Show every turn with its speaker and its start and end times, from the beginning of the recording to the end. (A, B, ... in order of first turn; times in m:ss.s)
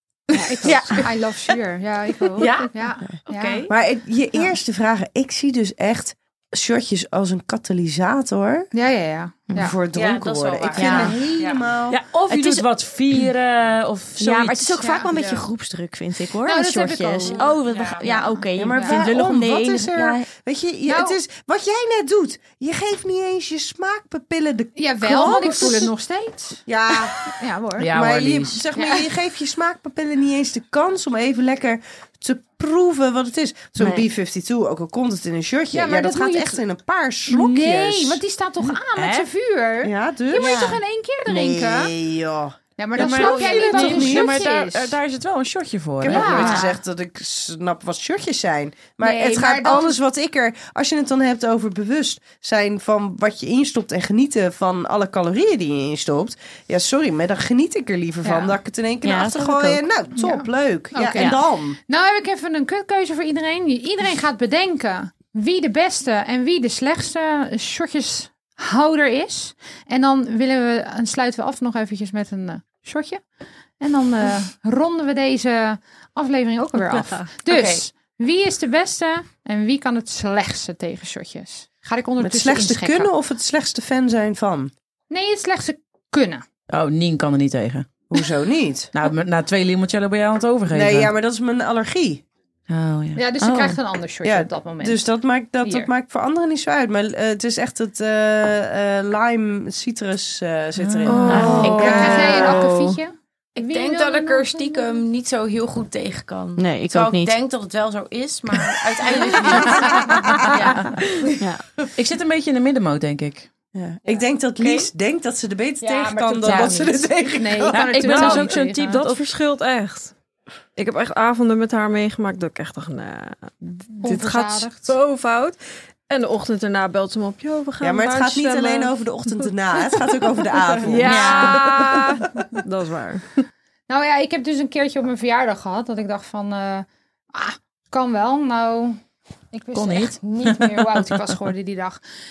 0:00.3-0:03.7 A
0:00.6-0:01.1 B
0:02.4-0:02.7 C
0:03.3-0:03.7 C
0:03.7-0:08.7 D
0:08.7-0:09.8 A
0:09.5-0:12.0 D
0:09.9-0:11.6 C
0:10.7-0:11.1 B
0:11.9-0:14.8 E
0:14.2-0:20.3 B
0:14.8-0:15.5 A
0:16.4-0:17.5 A
0:17.2-0:18.4 C
0:18.6-0:25.9 D
0:18.7-0:19.0 A
0:20.9-0:21.2 A
0:24.8-0:26.7 A
0:25.2-0:25.8 B
0:26.7-0:27.2 D
0:27.2-0:27.9 A
0:27.8-0:28.6 E
0:27.8-0:38.2 D
0:33.8-0:34.1 B
0:35.7-0:36.6 A
0:37.3-0:41.9 A
0:38.7-0:39.3 E
0:39.8-0:40.6 D
0:40.3-0:40.8 B
0:41.3-0:44.4 D
0:42.8-0:45.0 A
0:43.0-0:46.6 E
0:46.0-1:01.8 D
0:46.0-0:46.8 A
0:46.2-0:46.7 B
0:49.0-0:50.0 A
0:58.2-0:58.6 A
0:59.0-0:59.8 B
1:00.2-1:01.3 A
1:01.2-1:01.4 B
1:01.9-1:13.2 A
1:13.8-1:23.1 A
1:17.5-1:17.8 C
1:22.2-1:24.7 D
1:25.1-1:26.4 A
1:26.7-1:28.0 E
1:28.1-1:28.9 D
1:28.9-1:31.1 E
1:30.7-1:32.2 D
1:32.7-1:33.2 E
1:33.2-1:35.1 A
1:33.4-1:33.8 B
1:34.2-1:42.6 D
1:35.6-1:35.9 A
1:40.8-1:41.6 E
1:41.1-1:42.0 F
1:41.3-1:42.6 B
1:41.5-1:45.0 A
1:41.5-1:42.4 C
1:43.6-1:51.9 C
1:46.6-1:47.4 B
1:49.3-1:50.8 B
1:49.4-1:49.9 A
1:51.4-1:51.6 B
1:52.0-1:53.5 E
1:53.7-1:57.9 D
1:54.6-1:54.9 C
1:55.8-1:59.0 A
1:55.9-1:56.9 C
1:57.7-1:59.2 E
1:58.0-2:00.1 F
2:00.8-2:05.6 F
2:04.0-2:04.9 A
2:06.1-2:10.1 F
2:07.8-2:12.2 D
2:10.8-2:13.2 F
2:11.0-2:11.9 B
2:13.9-2:19.0 A
2:19.5-2:22.0 A
2:19.7-2:21.0 E